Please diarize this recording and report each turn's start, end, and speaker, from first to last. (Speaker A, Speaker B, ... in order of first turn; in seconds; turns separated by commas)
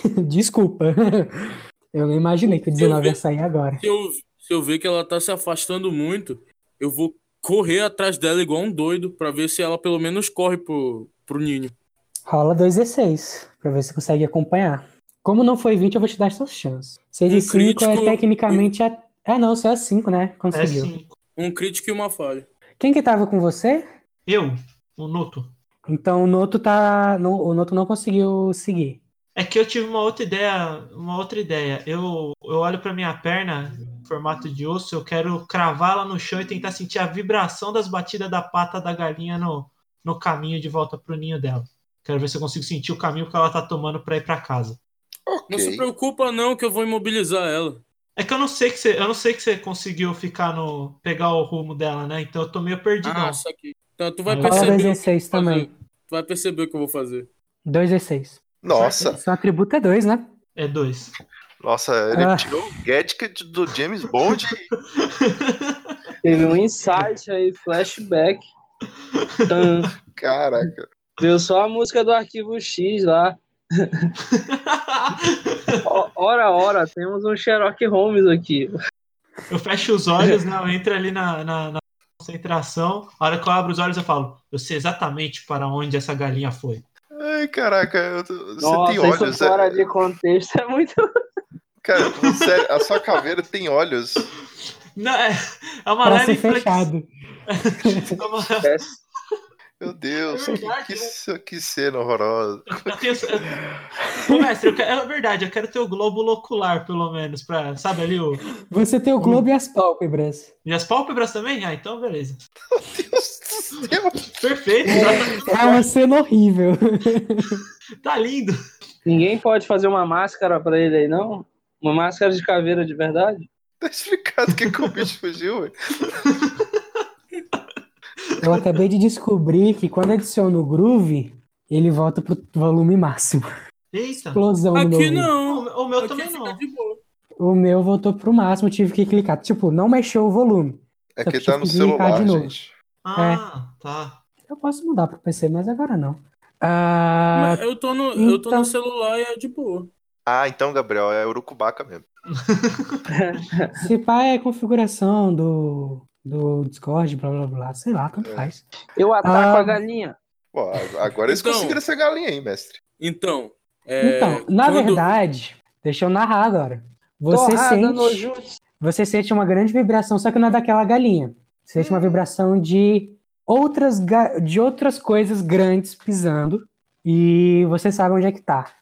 Speaker A: 0.2-3.8, Speaker B: 2.4-3.2, Speaker B: 3.8-11.7, Speaker A: 12.3-20.9, Speaker B: 17.3-18.7, Speaker C: 20.5-21.1, Speaker B: 21.4-22.5, Speaker A: 22.8-23.8, Speaker C: 24.3-25.5, Speaker A: 25.9-29.0, Speaker C: 29.3-44.8, Speaker D: 45.3-45.9, Speaker B: 45.5-47.8, Speaker C: 48.2-53.4, Speaker B: 53.0-57.3, Speaker C: 54.3-54.9, Speaker A: 54.4-55.7, Speaker A: 57.6-58.4, Speaker D: 58.6-59.2, Speaker C: 58.7-59.1, Speaker A: 59.1-60.3, Speaker C: 60.5-61.1, Speaker D: 61.6-64.7, Speaker A: 62.1-62.5, Speaker C: 65.0-65.9, Speaker E: 66.2-68.4, Speaker C: 69.3-69.9, Speaker E: 69.5-69.9, Speaker D: 70.2-70.9, Speaker E: 71.2-74.1, Speaker C: 74.3-75.8, Speaker E: 75.8-78.7, Speaker C: 79.5-86.8, Speaker D: 87.1-89.8, Speaker E: 88.6-90.9, Speaker D: 91.8-94.2, Speaker C: 92.2-92.5, Speaker C: 95.0-96.9, Speaker A: 96.0-97.1, Speaker C: 97.5-98.9, Speaker A: 97.8-98.2, Speaker E: 98.6-99.0, Speaker D: 99.8-103.3, Speaker C: 100.3-101.1, Speaker C: 102.7-103.6, Speaker A: 104.0-104.5, Speaker C: 104.2-108.4, Speaker A: 108.7-110.5, Speaker C: 109.2-109.5, Speaker C: 110.6-112.4, Speaker D: 112.7-114.4, Speaker C: 114.3-115.8, Speaker E: 114.9-115.1, Speaker A: 114.9-117.6, Speaker C: 118.0-118.5, Speaker E: 119.0-123.5, Speaker D: 123.8-126.1, Speaker C: 124.5-125.1, Speaker C: 126.2-126.7, Speaker A: 128.4-133.4, Speaker C: 133.9-134.4, Speaker A: 134.3-135.3, Speaker B: 134.7-137.0, Speaker C: 135.4-136.6, Speaker A: 137.4-142.5, Speaker D: 141.1-142.7, Speaker C: 143.0-144.2, Speaker A: 144.5-147.6, Speaker B: 147.3-149.9, Speaker A: 148.2-148.7, Speaker D: 150.2-152.0, Speaker C: 152.3-153.0, Speaker E: 153.1-153.8, Speaker A: 153.8-158.6, Speaker D: 158.2-158.5, Speaker E: 159.0-160.2, Speaker A: 159.2-159.8, Speaker D: 160.5-162.8, Speaker B: 161.3-161.8, Speaker B: 163.0-165.2, Speaker A: 164.0-168.2, Speaker E: 167.3-168.5, Speaker A: 168.8-178.7, Speaker D: 171.8-172.2